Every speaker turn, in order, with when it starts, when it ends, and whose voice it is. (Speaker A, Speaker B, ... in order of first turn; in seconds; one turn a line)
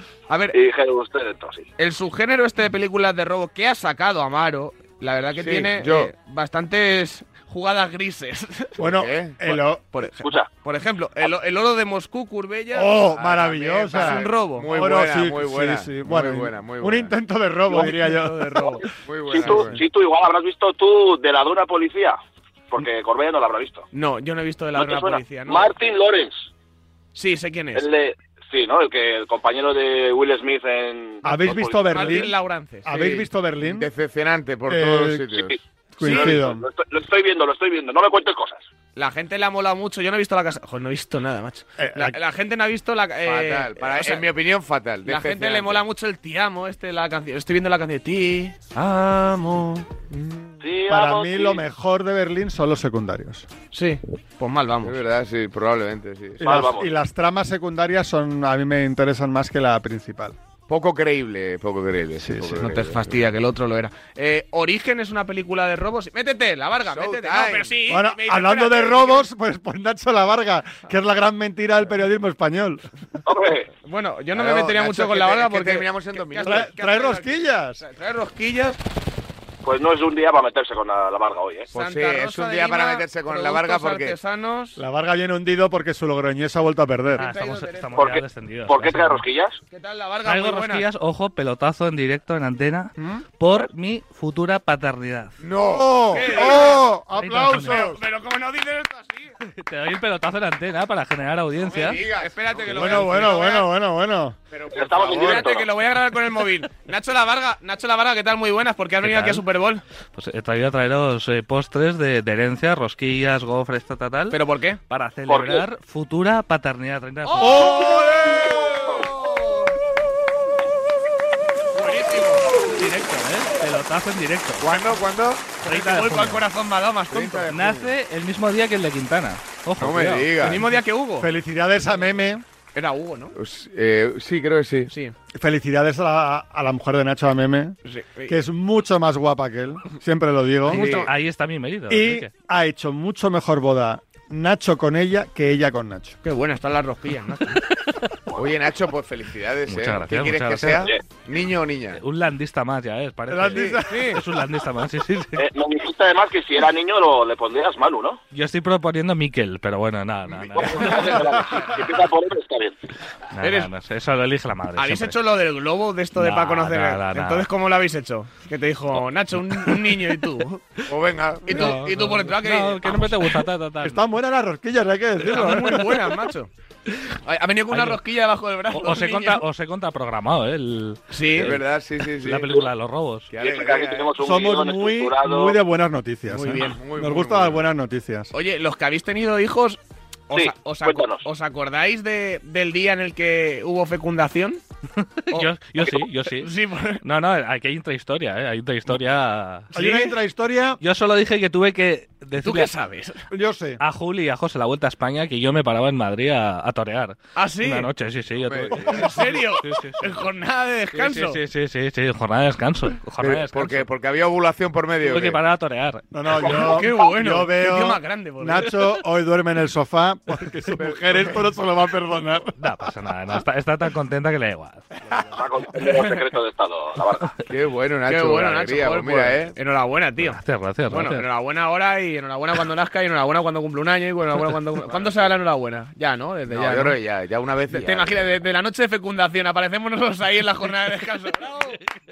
Speaker A: 0.3-0.6
Speaker B: 0.5-1.7
Speaker A: 1.8-8.7
Speaker C: 5.3-6.1
Speaker D: 8.8-9.8
Speaker C: 8.8-9.4
Speaker A: 9.4-13.0
Speaker B: 10.2-10.5
Speaker D: 12.7-18.8
Speaker C: 13.1-17.1
Speaker A: 13.9-14.7
Speaker A: 17.7-18.8
Speaker C: 19.0-19.9
Speaker B: 19.2-22.2
Speaker B: 22.7-23.8
Speaker A: 23.9-25.7
Speaker B: 24.8-26.5
Speaker A: 27.1-27.9
Speaker B: 27.8-32.2
Speaker D: 31.2-33.9
Speaker A: 31.9-33.2
Speaker C: 33.0-35.6
Speaker D: 34.7-35.3
Speaker D: 35.9-36.6
Speaker A: 36.0-36.5
Speaker B: 36.1-38.6
Speaker A: 39.0-44.3
Speaker D: 41.8-42.2
Speaker C: 43.2-45.9
Speaker A: 45.0-48.7
Speaker D: 48.8-53.5
Speaker B: 50.6-51.6
Speaker A: 53.7-55.0
Speaker C: 54.8-56.6
Speaker D: 56.4-60.4
Speaker B: 56.5-56.9
Speaker C: 60.7-63.2
Speaker D: 62.2-62.7
Speaker A: 62.6-69.3
Speaker C: 66.9-67.8
Speaker D: 67.9-72.9
Speaker B: 73.3-73.7
Speaker A: 73.8-78.8
Speaker C: 74.3-76.8
Speaker D: 76.4-77.8
Speaker B: 79.6-81.7
Speaker C: 81.7-84.2
Speaker A: 81.7-84.8
Speaker D: 84.8-87.3
Speaker E: 87.2-89.2
Speaker A: 87.2-88.1
Speaker B: 88.0-89.6
Speaker A: 89.7-90.8
Speaker E: 90.2-95.4
Speaker C: 95.4-96.6
Speaker D: 95.7-98.0
Speaker A: 96.1-96.9
Speaker E: 97.2-97.9
Speaker A: 97.8-99.3
Speaker E: 99.4-102.0
Speaker C: 101.6-102.8
Speaker A: 102.0-103.7
Speaker D: 102.7-104.4
Speaker C: 104.5-105.7
Speaker B: 104.7-105.7
Speaker A: 105.3-109.8
Speaker E: 109.0-109.5
Speaker E: 110.2-117.8
Speaker A: 114.3-114.8
Speaker B: 115.3-115.7
Speaker A: 117.2-119.7
Speaker D: 117.5-117.9
Speaker B: 118.5-119.0
Speaker A: 121.7-122.6
Speaker E: 122.6-124.7
Speaker C: 124.6-125.6
Speaker A: 125.6-127.5
Speaker E: 125.7-126.5
Speaker C: 127.1-127.9
Speaker E: 127.5-130.8
Speaker C: 129.8-130.7
Speaker A: 130.4-131.3
Speaker D: 131.2-132.4
Speaker A: 132.8-133.3
Speaker C: 133.3-134.9
Speaker A: 134.9-135.1
Speaker D: 135.4-137.8
Speaker A: 137.8-138.4
Speaker D: 138.3-141.0
Speaker A: 140.7-141.1
Speaker C: 140.7-141.1
Speaker E: 140.9-142.3
Speaker D: 141.9-146.2
Speaker A: 146.2-147.6
Speaker C: 148.4-152.0
Speaker E: 149.7-150.9
Speaker E: 151.9-155.5
Speaker D: 153.3-154.2
Speaker A: 153.6-154.2
Speaker B: 155.4-158.2
Speaker E: 158.3-161.4
Speaker B: 160.5-162.8
Speaker E: 163.3-165.2
Speaker A: 163.4-163.7
Speaker A: 164.8-170.6
Speaker E: 166.2-167.5
Speaker E: 169.5-170.1
Speaker C: 170.9-171.7
Speaker A: 171.4-173.4
Speaker E: 171.5-174.0
Speaker D: 173.8-175.9
Speaker A: 175.2-176.5
Speaker E: 175.6-175.9
Speaker A: 177.2-179.4
Speaker E: 177.7-178.0
Speaker E: 178.7-183.3
Speaker A: 181.1-181.5
Speaker C: 181.3-182.7
Speaker C: 183.3-184.2
Speaker B: 183.4-185.6
Speaker D: 184.2-188.3
Speaker A: 186.3-186.8
Speaker C: 186.6-187.7
Speaker A: 188.3-194.6
Speaker B: 190.3-191.2
Speaker E: 195.0-196.5
Speaker A: 195.3-197.0
Speaker E: 197.0-199.7
Speaker D: 199.7-200.8
Speaker A: 199.8-200.2
Speaker E: 200.8-202.7
Speaker A: 202.4-203.2
Speaker D: 203.3-203.8
Speaker E: 203.8-210.2
Speaker A: 207.4-207.9
Speaker C: 208.4-209.2
Speaker A: 208.8-211.4
Speaker E: 210.9-213.8
Speaker C: 213.2-215.4
Speaker E: 215.0-216.5
Speaker D: 216.1-222.6
Speaker A: 216.3-218.9
Speaker C: 220.7-221.5
Speaker E: 222.6-224.9
Speaker B: 225.3-227.3
Speaker C: 227.5-229.5
Speaker A: 228.0-237.0
Speaker E: 230.2-231.3
Speaker C: 234.9-235.2
Speaker C: 236.5-238.2
Speaker A: 237.7-241.8